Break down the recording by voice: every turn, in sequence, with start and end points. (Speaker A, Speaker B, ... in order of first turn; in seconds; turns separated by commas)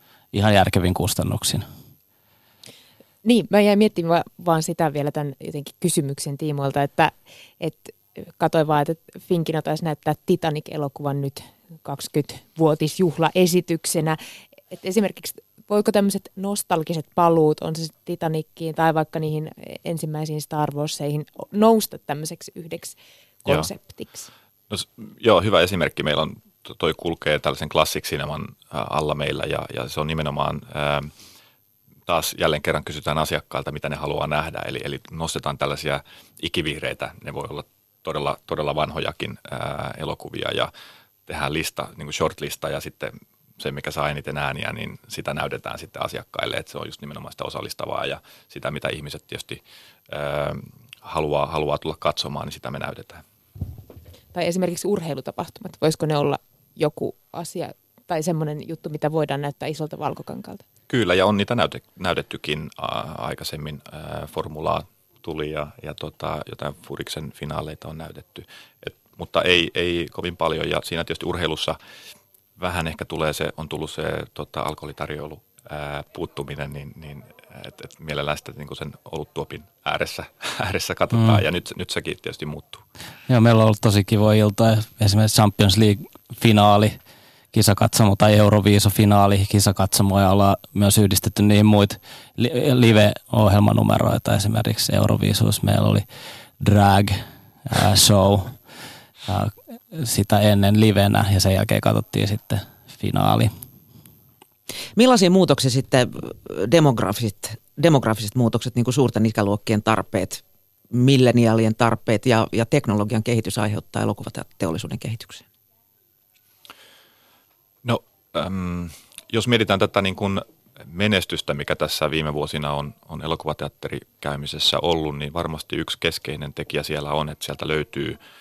Speaker A: 0.3-1.6, Speaker B: 3.2-14.2, Speaker B: 14.7-24.3, Speaker C: 24.7-31.1, Speaker C: 32.1-40.7, Speaker C: 41.3-53.2, Speaker B: 54.3-60.6, Speaker C: 60.9-71.8, Speaker C: 72.6-82.8, Speaker A: 81.1-81.4, Speaker A: 83.3-87.0, Speaker A: 87.5-96.0, Speaker A: 96.6-98.6, Speaker A: 99.2-103.5, Speaker D: 105.0-115.4, Speaker C: 117.8-128.2